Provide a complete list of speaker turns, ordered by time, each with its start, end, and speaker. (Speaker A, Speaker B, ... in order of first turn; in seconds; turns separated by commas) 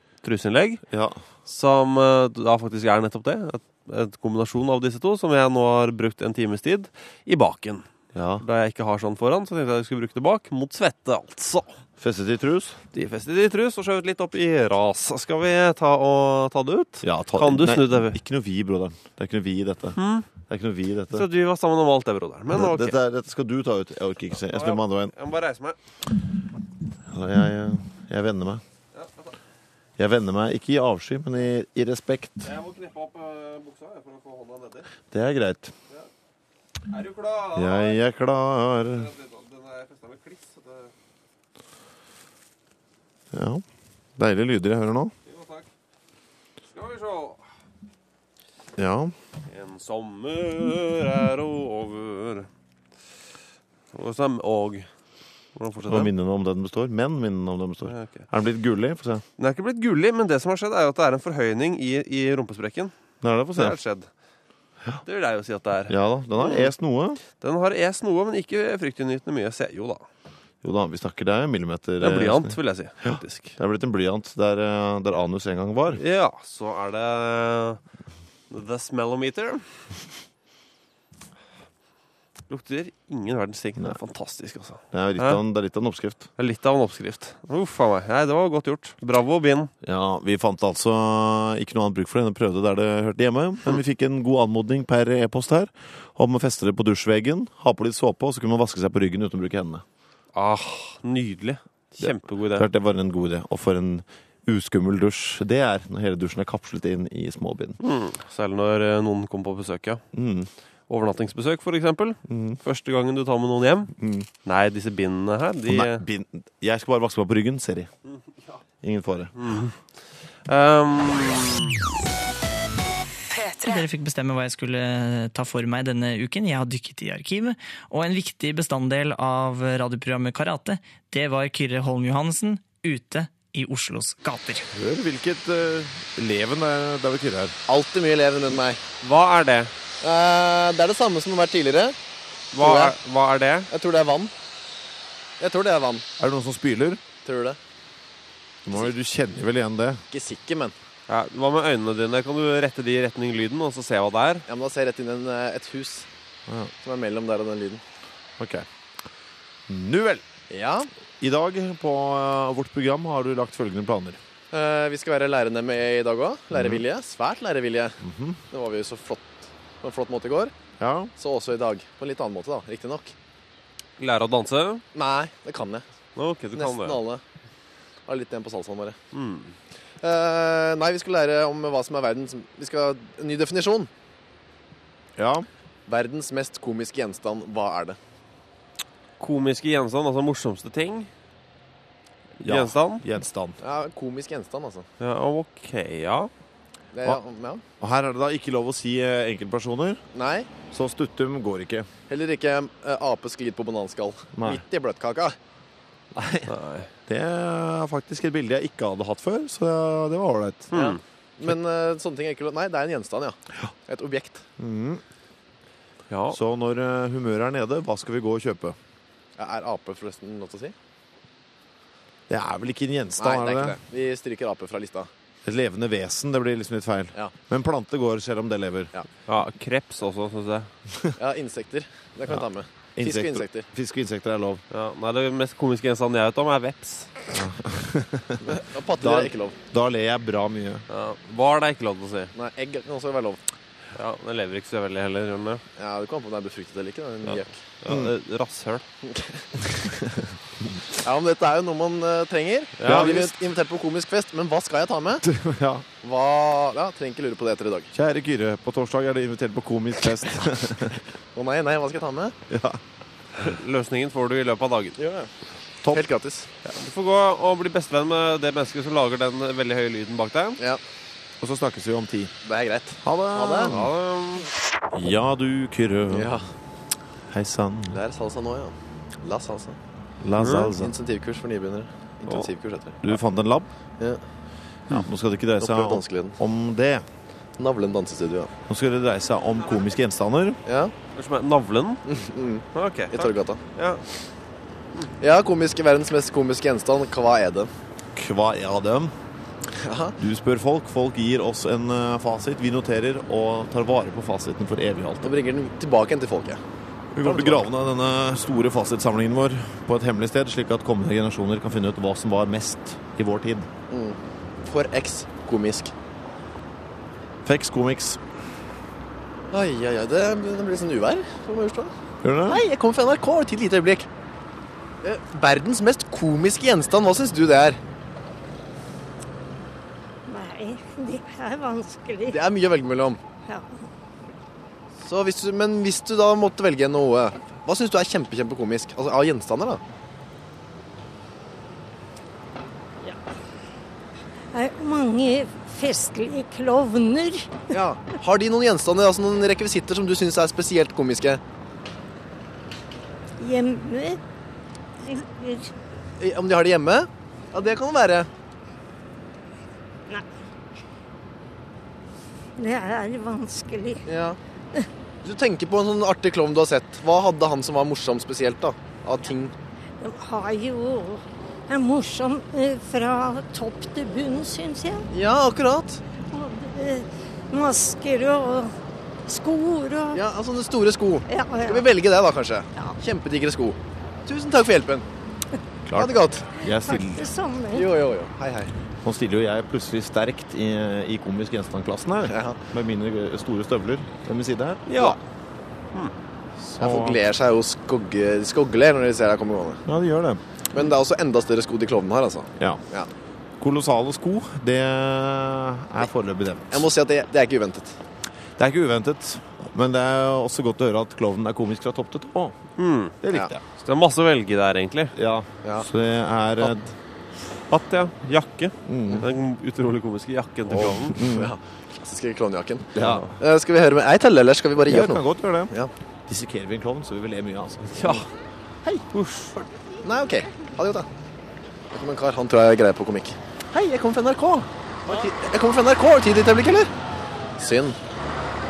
Speaker A: 0.2-0.8, Speaker B: 0.9-1.2, Speaker A: 1.5-7.9, Speaker B: 8.1-8.4, Speaker A: 8.4-11.8, Speaker B: 12.0-12.8, Speaker A: 12.9-18.2, Speaker B: 17.0-21.3, Speaker A: 20.0-20.3, Speaker A: 21.1-23.0, Speaker B: 22.5-25.1, Speaker A: 24.3-25.8, Speaker B: 27.1-28.6, Speaker A: 28.9-29.3, Speaker B: 30.0-32.5, Speaker A: 32.4-34.9, Speaker B: 35.1-35.7, Speaker A: 36.9-38.0, Speaker B: 37.5-39.1, Speaker A: 38.9-40.9, Speaker B: 43.3-43.6, Speaker B: 44.2-45.1, Speaker A: 45.3-45.7, Speaker A: 46.7-47.5, Speaker B: 48.8-49.1, Speaker A: 49.5-52.5, Speaker A: 53.9-54.9, Speaker A: 55.5-56.1, Speaker B: 55.9-59.2, Speaker A: 57.9-58.3, Speaker A: 59.4-62.9, Speaker B: 63.2-63.8, Speaker A: 63.5-64.1, Speaker A: 65.0-66.7, Speaker B: 65.9-67.2, Speaker A: 67.4-70.0, Speaker B: 70.6-76.0, Speaker A: 72.0-73.6, Speaker A: 76.0-77.8, Speaker A: 78.5-79.8, Speaker A: 82.5-85.4, Speaker B: 84.9-86.3, Speaker A: 86.4-89.7, Speaker B: 89.8-99.8, Speaker A: 100.3-102.7, Speaker B: 102.0-107.8, Speaker A: 107.8-110.0, Speaker B: 110.1-110.5, Speaker A: 110.9-116.0, Speaker B: 112.3-112.6, Speaker B: 114.0-114.3, Speaker B: 115.7-117.9, Speaker B: 118.8-119.3, Speaker A: 119.4-119.8, Speaker A: 120.5-121.8, Speaker C: 123.6-134.7, Speaker B: 134.7-137.6, Speaker D: 137.7-138.8, Speaker A: 139.0-139.7, Speaker D: 140.0-142.0, Speaker A: 142.5-143.7, Speaker D: 142.6-143.0, Speaker D: 143.7-144.3, Speaker D: 145.4-146.1, Speaker B: 146.2-147.0, Speaker D: 147.2-147.6, Speaker B: 148.7-150.0, Speaker D: 150.1-150.8, Speaker A: 151.1-154.4, Speaker D: 154.5-156.1, Speaker B: 156.5-156.7, Speaker D: 156.8-157.8, Speaker B: 158.4-158.7, Speaker B: 159.7-160.2, Speaker D: 160.5-160.9, Speaker B: 161.2-164.2, Speaker D: 164.5-168.0, Speaker B: 166.5-166.8, Speaker B: 168.0-168.4, Speaker D: 168.5-170.5, Speaker B: 170.8-171.1, Speaker D: 171.2-173.1, Speaker A: 174.0-174.8, Speaker D: 174.9-175.8, Speaker A: 176.2-177.0, Speaker D: 176.5-177.2, Speaker D: 178.1-179.0, Speaker A: 179.1-179.6, Speaker D: 180.0-183.9, Speaker B: 185.2-185.5, Speaker D: 185.9-188.0, Speaker A: 189.2-191.1, Speaker A: 192.4-193.0, Speaker B: 192.4-193.6, Speaker D: 193.6-194.9, Speaker A: 195.0-196.3, Speaker D: 196.9-197.6, Speaker B: 197.8-200.0, Speaker D: 200.1-200.5, Speaker B: 200.7-201.9, Speaker D: 202.1-205.4, Speaker B: 204.4-204.6, Speaker B: 206.1-206.5, Speaker A: 206.5-206.9, Speaker B: 207.1-210.7, Speaker A: 210.7-211.0, Speaker D: 210.7-214.4, Speaker B: 214.6-215.0, Speaker A: 216.1-216.4, Speaker B: 216.3-218.8, Speaker D: 219.4-220.8, Speaker B: 222.3-223.8, Speaker D: 223.2-225.1, Speaker B: 225.4-228.9, Speaker A: 229.3-230.7, Speaker D: 231.2-233.7, Speaker B: 233.0-234.6, Speaker A: 234.7-237.1, Speaker B: 237.3-238.4, Speaker D: 238.4-239.6, Speaker B: 239.0-240.8, Speaker A: 240.9-242.3, Speaker D: 242.3-243.4, Speaker A: 243.9-245.6, Speaker D: 245.8-247.6, Speaker A: 247.2-248.8, Speaker B: 247.9-248.1, Speaker D: 249.1-249.5, Speaker B: 249.8-250.3, Speaker D: 251.0-255.2, Speaker A: 252.8-253.3, Speaker B: 252.8-253.3, Speaker B: 255.2-255.9, Speaker D: 256.0-257.9, Speaker B: 257.9-261.0, Speaker D: 261.3-262.4, Speaker B: 262.5-262.8, Speaker A: 263.4-265.0, Speaker D: 265.0-265.3, Speaker D: 265.9-266.5, Speaker A: 266.6-270.6, Speaker B: 271.4-272.3, Speaker D: 272.4-273.8, Speaker B: 273.0-273.9, Speaker A: 273.6-274.5, Speaker B: 274.9-276.4, Speaker D: 276.1-276.5, Speaker B: 277.3-278.0, Speaker D: 277.9-279.8, Speaker B: 280.2-280.9, Speaker A: 280.4-280.7, Speaker D: 280.7-283.0, Speaker B: 283.0-283.7, Speaker B: 284.9-287.1, Speaker D: 285.6-286.4, Speaker D: 287.6-288.5, Speaker B: 288.7-290.6, Speaker D: 290.7-290.9, Speaker A: 291.1-292.0, Speaker D: 292.1-293.6, Speaker A: 292.7-294.0, Speaker D: 295.2-297.7, Speaker B: 298.1-299.1, Speaker D: 299.8-300.2, Speaker B: 300.2-305.3, Speaker D: 305.2-306.6, Speaker B: 307.1-313.7, Speaker D: 307.2-307.7, Speaker D: 313.9-315.9, Speaker B: 317.4-318.2, Speaker D: 319.5-321.9, Speaker B: 322.2-322.6, Speaker D: 322.4-324.1, Speaker D: 325.0-327.8, Speaker E: 330.3-332.4, Speaker D: 332.3-333.2, Speaker E: 333.5-333.8, Speaker D: 335.0-339.8, Speaker E: 344.5-347.8, Speaker D: 347.7-351.4, Speaker E: 353.4-354.2, Speaker E: 355.0-355.7, Speaker D: 356.2-358.3, Speaker E: 362.6-364.0, Speaker D: 364.1-364.4, Speaker D: 365.2-369.5, Speaker E: 370.0-375.1, Speaker D: 375.1-376.0, Speaker E: 376.2-378.7, Speaker E: 379.3-380.2, Speaker D: 380.1-385.1, Speaker E: 381.3-381.9, Speaker B: 385.9-387.3, Speaker D: 385.9-386.5, Speaker E: 386.7-387.9, Speaker D: 387.7-388.7, Speaker B: 389.0-395.2, Speaker D: 392.3-392.6, Speaker A: 394.9-395.2, Speaker B: 396.6-397.2, Speaker D: 396.8-399.8, Speaker B: 399.9-400.4, Speaker D: 400.7-403.1, Speaker B: 403.6-406.9, Speaker D: 406.7-408.0, Speaker B: 408.6-412.6, Speaker A: 412.8-413.2, Speaker B: 413.2-413.6, Speaker A: 413.8-415.1, Speaker B: 415.1-416.9, Speaker A: 417.7-421.2, Speaker B: 418.9-419.3, Speaker B: 420.7-421.6, Speaker D: 421.2-425.9, Speaker B: 422.9-423.4, Speaker B: 424.9-425.7, Speaker B: 426.3-428.3, Speaker A: 427.9-428.3, Speaker A: 429.1-429.7, Speaker D: 430.0-431.1, Speaker D: 431.9-436.9, Speaker D: 437.6-438.0